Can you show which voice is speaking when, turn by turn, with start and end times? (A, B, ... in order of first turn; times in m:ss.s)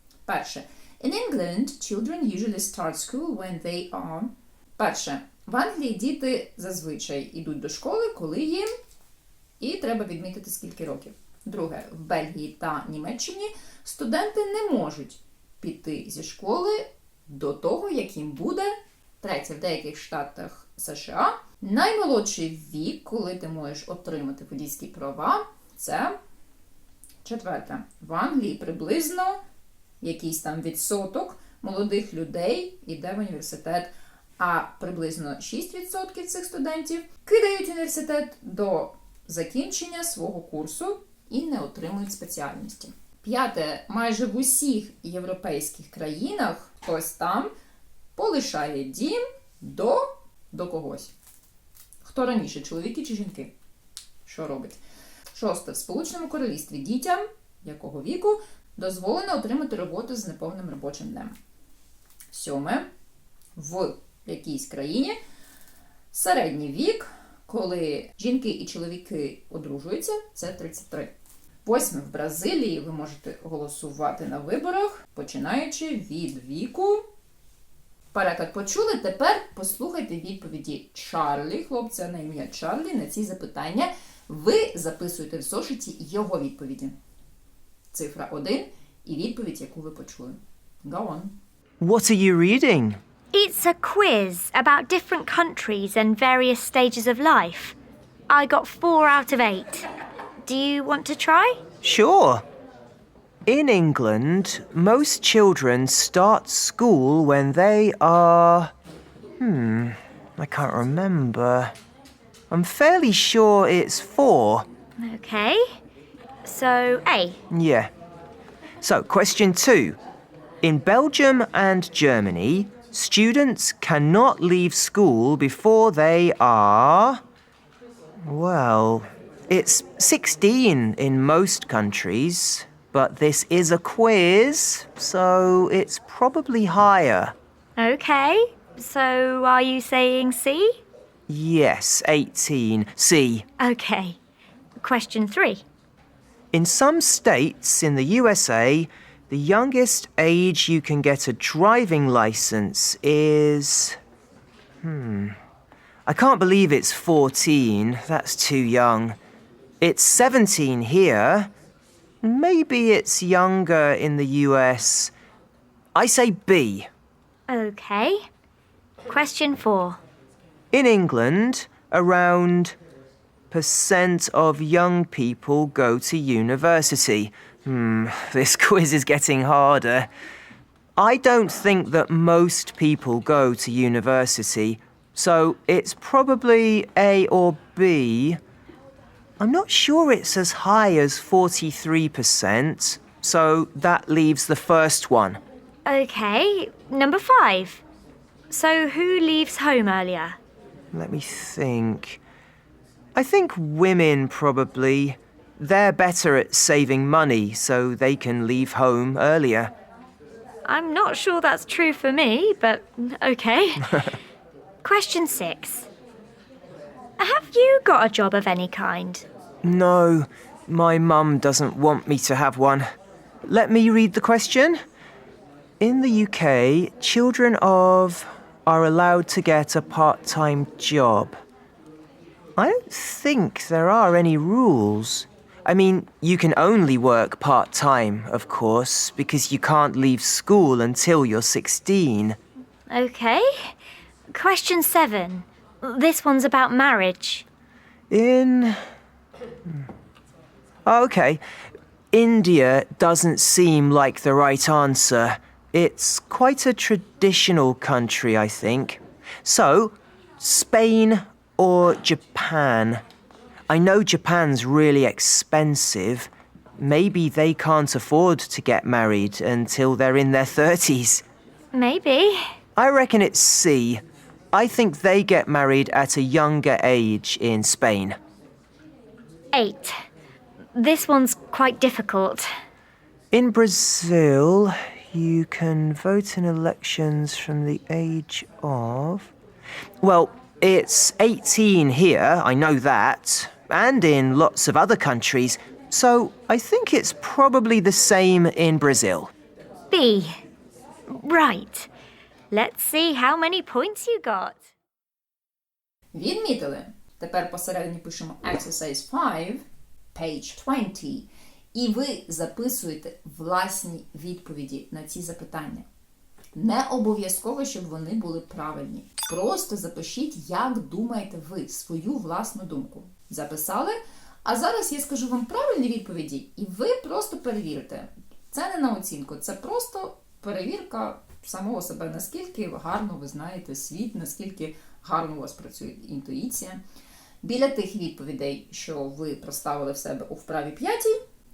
0:00.2-0:08.7 A
0:09.6-0:26.1 A
0:27.2-0:29.4 A
0:30.0-0:47.5 A
0:48.2-0:51.1 A
0:52.0-0:53.5 A
0:54.2-0:54.8 A
0:55.3-1:01.3 A
1:02.3-1:02.9 A
1:03.6-1:05.2 A
1:06.1-1:11.1 A
1:11.6-1:17.0 A
1:18.1-1:26.9 A
1:27.9-1:31.3 A
1:31.8-1:33.0 B
1:33.3-1:37.7 C
1:38.3-1:39.8 C
1:40.4-1:41.6 C
1:41.8-1:42.4 B
1:43.4-1:48.7 B
1:49.4-1:51.7 B
1:52.5-1:54.7 B
1:55.0-1:55.8 C
1:56.4-1:57.4 C
1:57.5-1:57.9 B
1:58.8-2:00.0 B
2:00.6-2:07.2 B
2:08.2-2:17.3 B
2:17.8-2:20.8 C
2:21.3-2:23.4 B
2:23.6-2:24.2 C
2:24.8-2:25.6 C
2:26.5-2:34.0 B
2:34.8-2:35.4 B
2:36.0-2:39.2 B
2:39.8-2:41.5 B
2:42.2-2:45.1 B
2:45.9-2:46.9 B
2:47.5-2:48.2 C
2:49.0-2:50.0 C
2:50.7-2:52.8 B
2:53.5-3:00.1 B
3:01.0-3:08.4 B
3:09.4-3:15.4 B
3:15.8-3:17.8 C
3:18.5-3:20.4 C
3:20.9-3:22.2 B
3:23.1-3:29.7 B
3:30.6-3:34.2 C
3:34.8-3:35.9 C
3:37.2-3:39.2 C
3:39.6-3:42.8 B
3:43.4-3:44.8 B
3:45.8-3:51.4 B
3:52.6-4:02.4 B
4:02.9-4:03.8 C
4:04.3-4:07.4 C
4:08.1-4:08.8 B
4:10.8-4:11.4 B
4:12.1-4:23.0 B
4:23.7-4:31.2 B
4:31.7-4:32.5 C
4:32.8-4:38.2 B
4:39.5-4:40.0 C
4:40.7-4:42.5 C
4:43.3-4:49.3 B
4:50.0-4:59.3 B
4:59.9-5:00.4 C
5:01.1-5:01.9 C
5:02.5-5:04.6 C
5:06.1-5:15.8 A
5:16.6-5:36.8 A
5:37.4-5:41.2 A